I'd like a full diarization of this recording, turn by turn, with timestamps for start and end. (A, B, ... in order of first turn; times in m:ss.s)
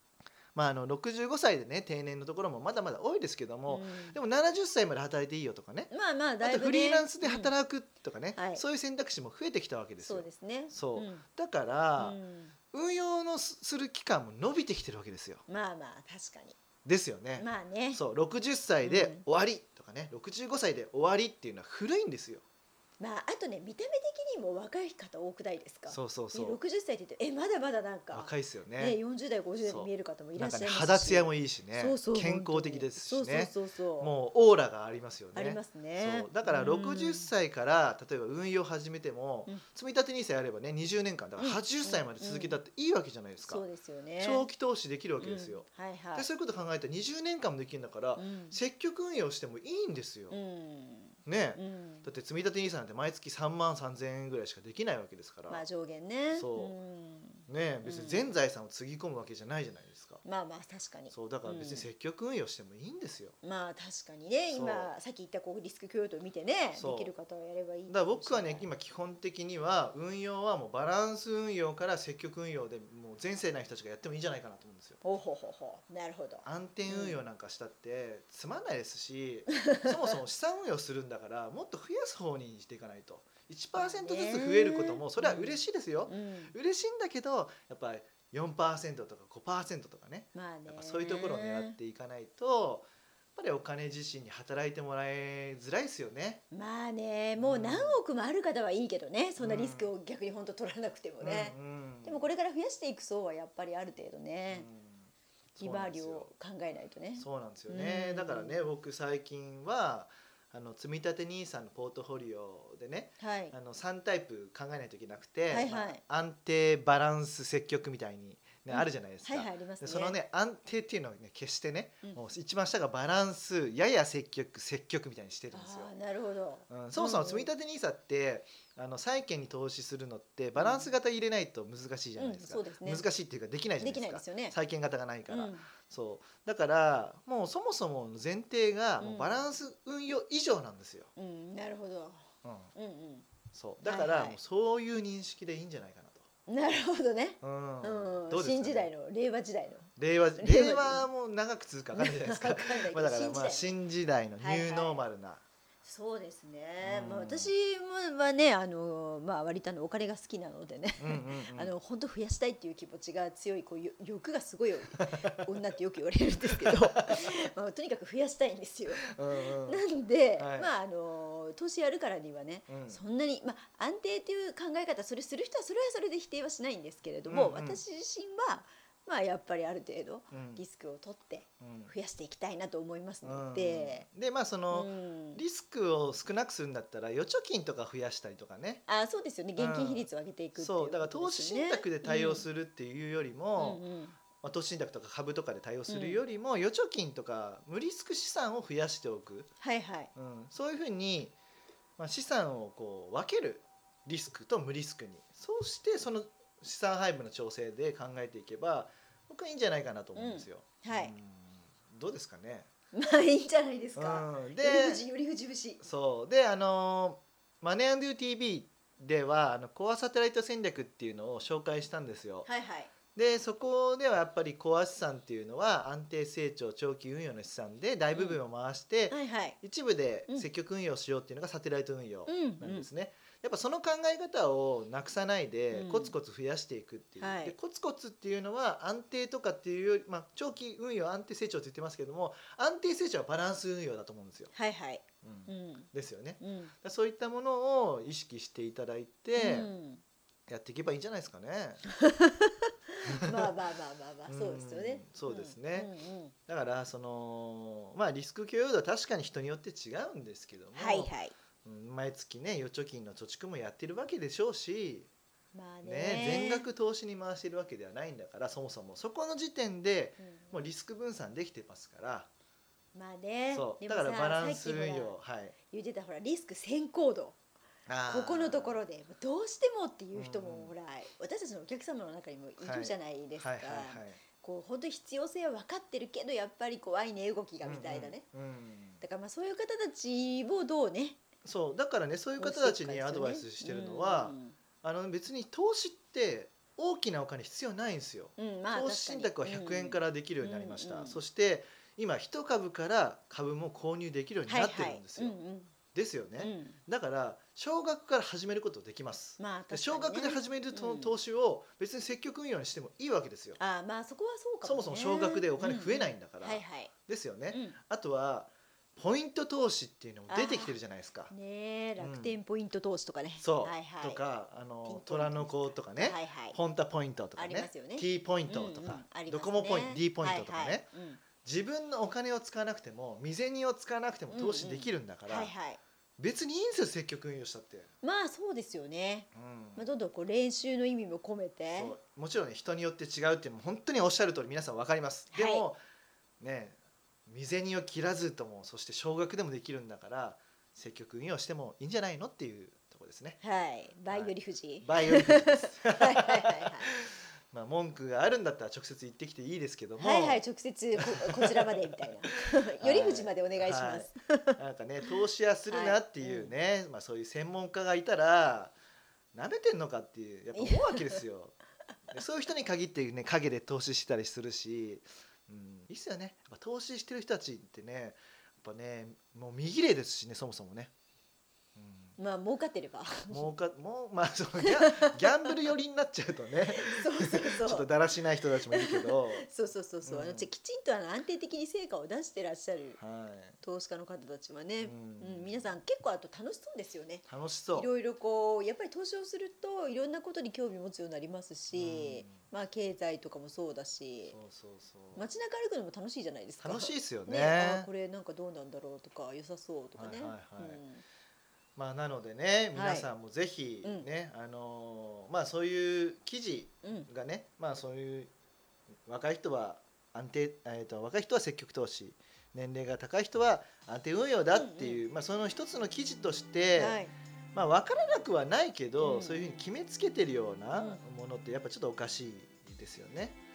0:00.5-0:05.9 A
0:03.7-0:04.2 B
0:05.9-0:07.5 B
0:06.4-0:12.2 A
0:08.3-0:08.6 B
0:10.0-0:11.2 B
0:12.0-0:12.5 B
0:12.7-0:15.4 A
0:15.5-0:16.6 B
0:16.8-0:22.4 A
0:17.4-0:18.0 B
0:18.8-0:19.2 B
0:23.0-0:34.1 B
0:25.9-0:26.6 A
0:28.1-0:29.0 A
0:29.6-0:43.6 A
0:35.3-0:37.3 B
0:41.4-0:42.6 B
0:43.4-0:44.5 B
0:44.2-0:50.4 A
0:45.2-0:46.3 B
0:48.2-0:48.6 B
0:50.3-0:52.1 B
0:51.2-0:55.6 A
0:55.5-0:58.2 B
0:56.3-0:56.7 A
0:57.5-1:00.2 A
1:00.2-1:01.9 B
1:01.1-1:03.4 A
1:03.4-1:08.7 B
1:04.5-1:04.9 A
1:06.8-1:07.1 A
1:07.9-1:15.0 A
1:15.0-1:17.2 B
1:16.4-1:36.4 A
1:23.7-1:26.5 B
1:30.3-1:31.8 B
1:36.5-1:44.7 B
1:37.4-1:38.0 A
1:39.4-1:39.9 A
1:41.2-1:42.3 A
1:44.5-1:46.3 A
1:45.6-1:48.6 B
1:47.2-2:05.9 A
1:53.2-1:53.5 B
1:55.5-1:56.0 B
1:58.7-2:00.2 B
2:05.5-2:07.5 B
2:06.7-2:21.1 A
2:10.6-2:10.9 B
2:12.2-2:13.0 B
2:13.8-2:14.5 B
2:15.3-2:15.7 B
2:19.0-2:19.4 B
2:21.2-2:22.2 B
2:22.4-2:22.7 A
2:22.7-2:23.3 B
2:23.5-2:26.2 A
2:23.8-2:24.4 B
2:26.5-2:31.0 B
2:27.4-2:28.9 A
2:30.0-2:35.4 A
2:31.9-2:33.8 B
2:34.4-2:35.0 B
2:35.8-3:04.0 B
2:36.8-2:37.5 A
2:41.0-2:41.7 A
2:48.9-2:49.8 A
2:50.4-2:50.7 A
2:52.7-2:53.0 A
2:57.2-2:57.8 A
3:00.3-3:00.6 A
3:01.6-3:01.9 A
3:03.2-3:08.8 A
3:04.7-3:05.4 B
3:08.9-3:12.4 B
3:09.6-3:13.8 A
3:13.6-3:14.2 B
3:14.4-3:19.5 A
3:15.9-3:16.2 B
3:19.6-3:20.1 B
3:20.1-3:21.3 A
3:22.0-3:32.7 A
3:30.2-3:31.1 B
3:32.9-3:35.8 B
3:34.0-3:35.0 A
3:35.8-3:42.5 A
3:42.4-3:42.9 B
3:43.1-4:04.5 A
3:48.1-3:48.4 B
3:49.1-3:49.6 B
3:52.3-3:52.9 B
3:55.7-3:56.1 B
3:57.2-3:57.5 B
4:04.5-4:05.9 B
4:05.2-4:09.7 A
4:06.4-4:06.7 B
4:09.4-4:10.0 B
4:10.5-4:11.8 A
4:12.0-4:16.3 B
4:13.1-4:13.5 A
4:14.3-4:15.9 A
4:16.5-4:21.1 A
4:20.7-4:21.3 B
4:21.6-4:25.1 A
4:25.5-4:26.6 B
4:25.8-4:32.3 A
4:30.2-4:30.6 B
4:32.9-4:35.2 B
4:33.5-4:35.6 A
4:35.7-4:37.4 B
4:37.9-4:38.8 A
4:38.1-4:48.2 B
4:40.1-4:40.7 A
4:42.6-4:44.2 A
4:47.6-4:49.0 A
4:49.0-4:51.2 B
4:51.4-5:05.4 A
4:52.4-4:54.6 B
4:58.4-5:01.2 B
5:04.5-5:05.7 B
5:05.9-5:13.6 A
5:06.4-5:06.8 B
5:09.4-5:11.2 B
5:13.6-5:16.9 B
5:14.6-5:21.3 A
5:17.5-5:17.8 B
5:20.3-5:20.8 B
5:21.3-5:24.2 B
5:22.0-5:22.3 A
5:23.4-5:30.9 A
5:24.8-5:26.6 B
5:27.4-5:31.2 B
5:31.4-5:35.5 A
5:34.3-5:35.8 B
5:36.2-5:37.9 A
5:38.0-5:41.9 B
5:39.3-5:39.8 A
5:41.7-5:45.8 A
5:45.3-5:45.7 B
5:46.4-5:53.4 A
5:53.4-5:56.9 B
5:54.1-6:00.4 A
6:00.0-6:04.5 B
6:01.0-6:02.0 A
6:02.8-6:08.7 A
6:05.7-6:06.5 B
6:09.3-6:11.6 A
6:10.5-6:11.2 B
6:12.1-6:20.9 A
6:21.8-6:22.2 A
6:22.2-6:23.5 B
6:23.3-6:29.5 A
6:24.6-6:25.6 B
6:26.8-6:27.9 B
6:28.7-6:33.0 B
6:30.0-6:30.5 A
6:33.0-6:33.6 A
6:33.6-6:44.4 B
6:34.8-6:35.7 A
6:37.3-6:37.9 A
6:41.7-6:42.4 A
6:44.3-6:45.3 A
6:45.2-6:51.0 B
6:46.6-6:47.9 A
6:50.0-6:50.8 A
6:51.8-6:58.3 A
6:52.7-6:53.1 B
6:56.8-6:57.1 B
6:59.0-7:07.0 A
7:04.5-7:05.0 B
7:06.8-7:07.1 B
7:07.5-7:13.4 A
7:09.0-7:09.6 B